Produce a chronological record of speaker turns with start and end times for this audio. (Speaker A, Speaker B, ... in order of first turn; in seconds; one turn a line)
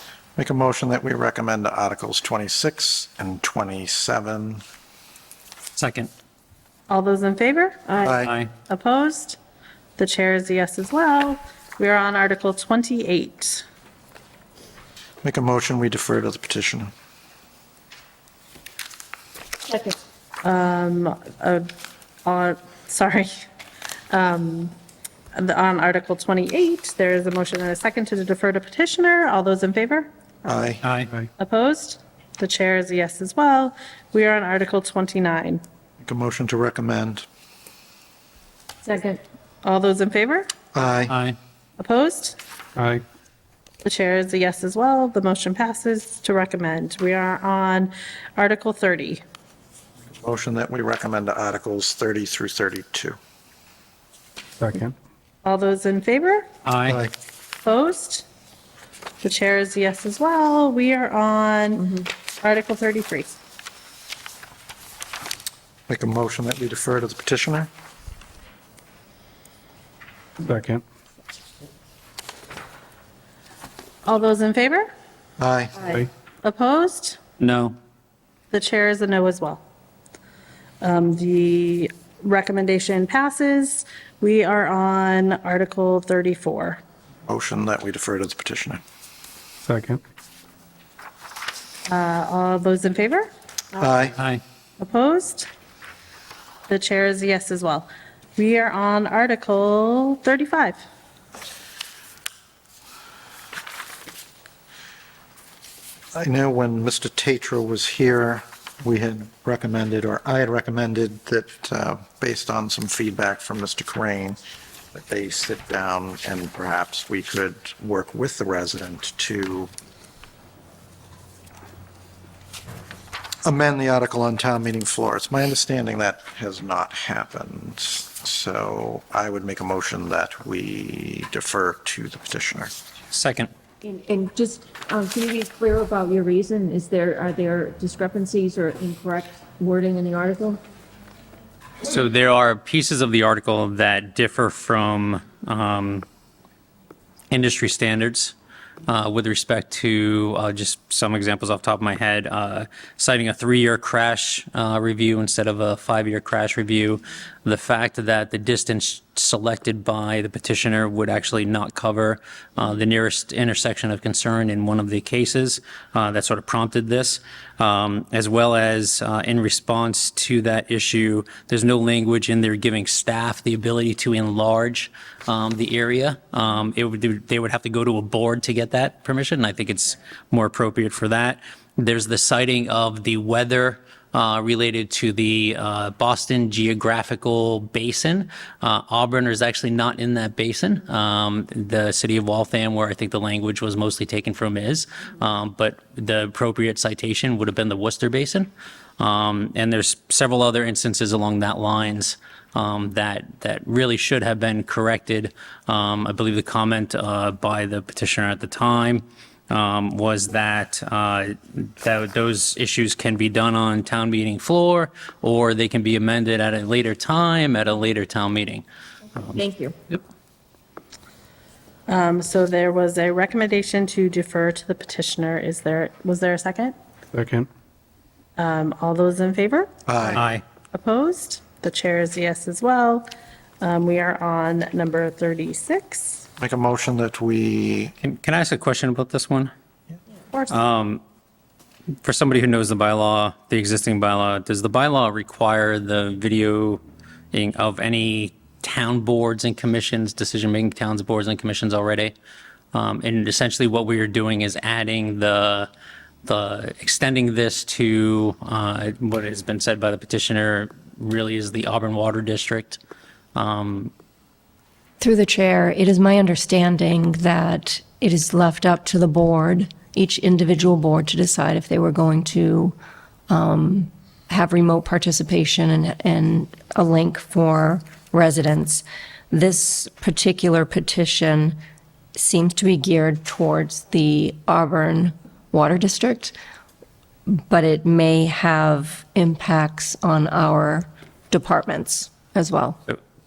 Speaker A: 0.4-4.6
Speaker B: 5.8-6.1
Speaker C: 6.9-9.4
Speaker A: 8.0-8.3
Speaker B: 8.2-8.5
Speaker C: 10.0-13.6
Speaker A: 15.2-16.9
Speaker C: 20.4-21.7
Speaker C: 22.2-23.3
Speaker C: 24.1-24.7
Speaker C: 25.3-30.1
Speaker A: 30.4-30.8
Speaker B: 30.8-31.1
Speaker C: 31.4-35.6
Speaker A: 36.0-37.2
Speaker C: 38.9-40.5
Speaker A: 40.7-41.1
Speaker B: 41.1-41.4
Speaker C: 41.8-42.4
Speaker D: 42.8-43.0
Speaker C: 43.8-49.2
Speaker A: 50.2-53.2
Speaker D: 54.6-54.9
Speaker C: 55.4-56.5
Speaker B: 56.6-57.0
Speaker A: 56.9-57.1
Speaker C: 57.6-58.3
Speaker C: 59.2-63.4
Speaker A: 65.9-67.7
Speaker D: 70.4-70.8
Speaker C: 74.0-74.9
Speaker A: 75.4-75.8
Speaker C: 76.4-77.2
Speaker B: 77.4-77.7
Speaker C: 78.5-79.6
Speaker C: 80.8-86.8
Speaker A: 87.3-88.8
Speaker D: 89.6-90.0
Speaker C: 91.9-93.3
Speaker A: 93.8-94.1
Speaker B: 94.2-94.4
Speaker C: 94.8-95.5
Speaker C: 96.7-100.8
Speaker A: 106.1-114.4
Speaker A: 114.9-119.7
Speaker A: 123.4-132.7
Speaker B: 133.1-133.5
Speaker E: 133.9-140.6
Speaker F: 134.2-136.9
Speaker F: 137.8-138.1
Speaker F: 138.9-139.2
Speaker B: 141.8-146.1
Speaker B: 147.3-148.3
Speaker B: 148.9-218.6
Speaker F: 219.4-219.7
Speaker C: 221.9-226.8
Speaker D: 227.1-227.5
Speaker C: 228.4-229.7
Speaker A: 229.9-230.2
Speaker B: 230.2-230.4
Speaker C: 230.7-233.1
Speaker C: 233.6-236.3
Speaker A: 236.4-237.9
Speaker B: 238.0-239.5
Speaker C: 240.3-240.6
Speaker B: 240.5-241.0
Speaker B: 242.0-246.8
Speaker B: 247.3-252.1
Speaker B: 252.7-255.7
Speaker B: 256.2-262.8
Speaker B: 263.4-263.9
Speaker E: 265.0-272.8
Speaker E: 273.3-281.6
Speaker E: 282.1-286.4
Speaker E: 287.3-292.8